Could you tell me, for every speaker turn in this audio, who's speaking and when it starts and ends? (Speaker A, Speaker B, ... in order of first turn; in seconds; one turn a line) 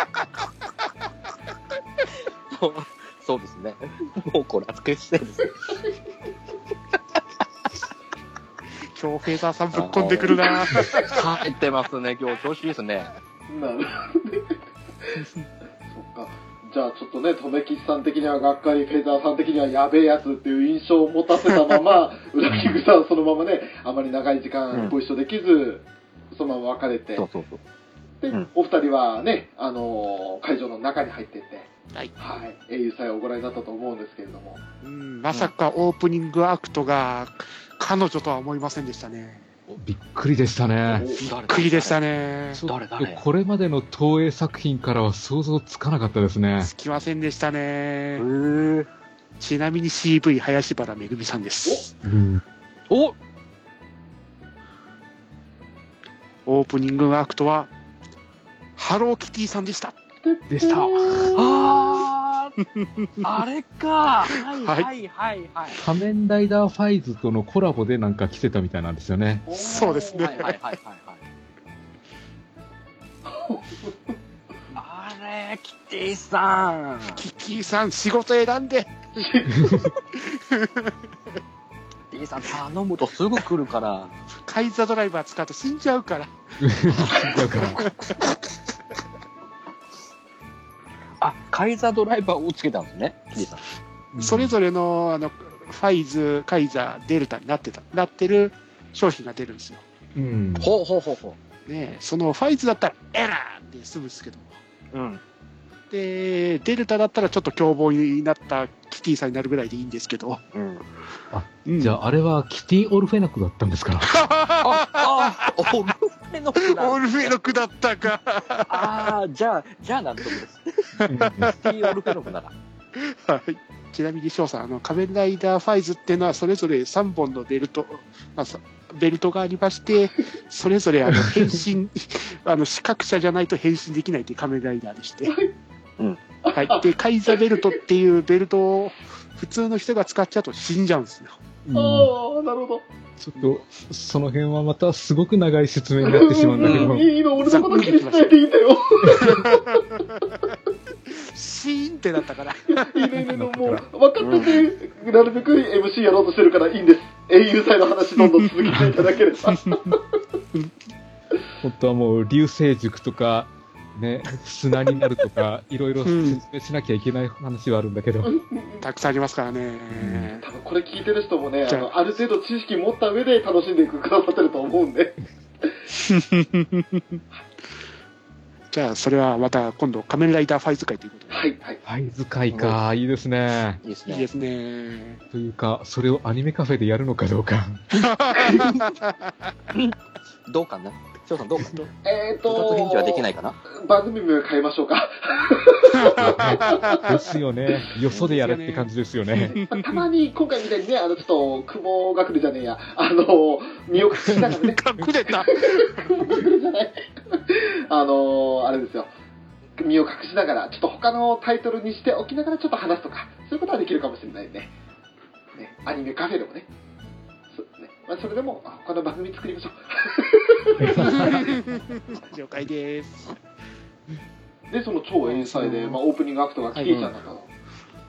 Speaker A: 2.5-5.7
Speaker B: 8.9-11.2
Speaker A: 9.7-13.1
Speaker C: 10.7-11.1
Speaker C: 13.5-14.6
Speaker C: 15.9-27.3
Speaker D: 22.5-22.8
Speaker A: 27.2-27.6
Speaker C: 28.2-34.6
Speaker B: 34.8-39.5
Speaker D: 39.7-41.1
Speaker A: 40.9-42.0
Speaker B: 41.2-42.6
Speaker D: 42.5-46.7
Speaker A: 42.6-43.2
Speaker B: 46.6-48.3
Speaker A: 48.2-48.9
Speaker B: 49.4-51.9
Speaker D: 52.0-52.4
Speaker A: 52.9-53.2
Speaker B: 56.5-57.7
Speaker B: 58.8-60.0
Speaker C: 60.2-61.4
Speaker D: 60.5-61.4
Speaker A: 61.3-62.6
Speaker A: 63.2-65.8
Speaker B: 64.5-64.9
Speaker D: 65.8-69.4
Speaker C: 69.5-70.5
Speaker B: 69.5-70.6
Speaker A: 69.8-71.2
Speaker C: 73.2-73.9
Speaker A: 74.7-77.2
Speaker B: 77.2-79.0
Speaker C: 79.2-79.7
Speaker D: 79.5-79.9
Speaker B: 80.1-80.9
Speaker A: 82.1-84.1
Speaker B: 84.5-86.3
Speaker D: 86.6-87.8
Speaker B: 86.8-88.3
Speaker A: 87.8-88.3
Speaker A: 91.2-93.6
Speaker D: 94.1-94.5
Speaker B: 94.2-99.8
Speaker D: 100.2-100.7
Speaker A: 100.6-101.4
Speaker B: 101.7-104.6
Speaker A: 104.9-105.2
Speaker B: 105.9-110.4
Speaker A: 110.5-110.8
Speaker D: 111.3-114.1
Speaker B: 111.7-112.0
Speaker B: 114.0-115.7
Speaker A: 114.6-117.6
Speaker B: 116.6-119.2
Speaker A: 118.7-122.5
Speaker B: 121.0-122.2
Speaker D: 121.0-121.6
Speaker B: 123.0-135.3
Speaker D: 131.1-131.6
Speaker C: 135.3-135.5
Speaker C: 136.4-137.4
Speaker B: 136.6-141.4
Speaker D: 141.7-142.1
Speaker C: 141.7-142.8
Speaker D: 143.2-147.1
Speaker C: 146.0-150.0
Speaker A: 146.6-147.0
Speaker B: 147.4-148.4
Speaker B: 149.2-149.8
Speaker B: 151.2-153.0
Speaker C: 152.7-160.0
Speaker D: 153.2-153.8
Speaker A: 154.2-154.7
Speaker D: 161.6-168.3
Speaker B: 166.1-166.4
Speaker C: 168.3-168.8
Speaker B: 168.8-170.4
Speaker D: 169.9-170.3
Speaker C: 170.4-175.7
Speaker B: 171.7-171.9
Speaker B: 176.1-177.0
Speaker B: 178.7-181.4
Speaker C: 181.3-181.8
Speaker D: 181.9-183.8
Speaker A: 182.5-182.8
Speaker A: 183.8-184.3
Speaker B: 184.1-185.2
Speaker D: 185.3-187.8
Speaker B: 187.9-189.1
Speaker A: 188.5-188.8
Speaker A: 190.5-191.8
Speaker C: 192.0-197.2
Speaker A: 192.5-193.6
Speaker B: 196.0-197.2
Speaker D: 196.2-199.6
Speaker B: 198.1-198.9
Speaker C: 199.4-209.1
Speaker B: 199.4-200.0
Speaker B: 204.4-206.3
Speaker C: 209.8-214.7
Speaker C: 215.6-216.7
Speaker C: 217.5-221.5
Speaker D: 220.8-221.4
Speaker B: 221.0-223.4
Speaker C: 224.7-227.5
Speaker B: 225.2-226.0
Speaker B: 226.8-227.1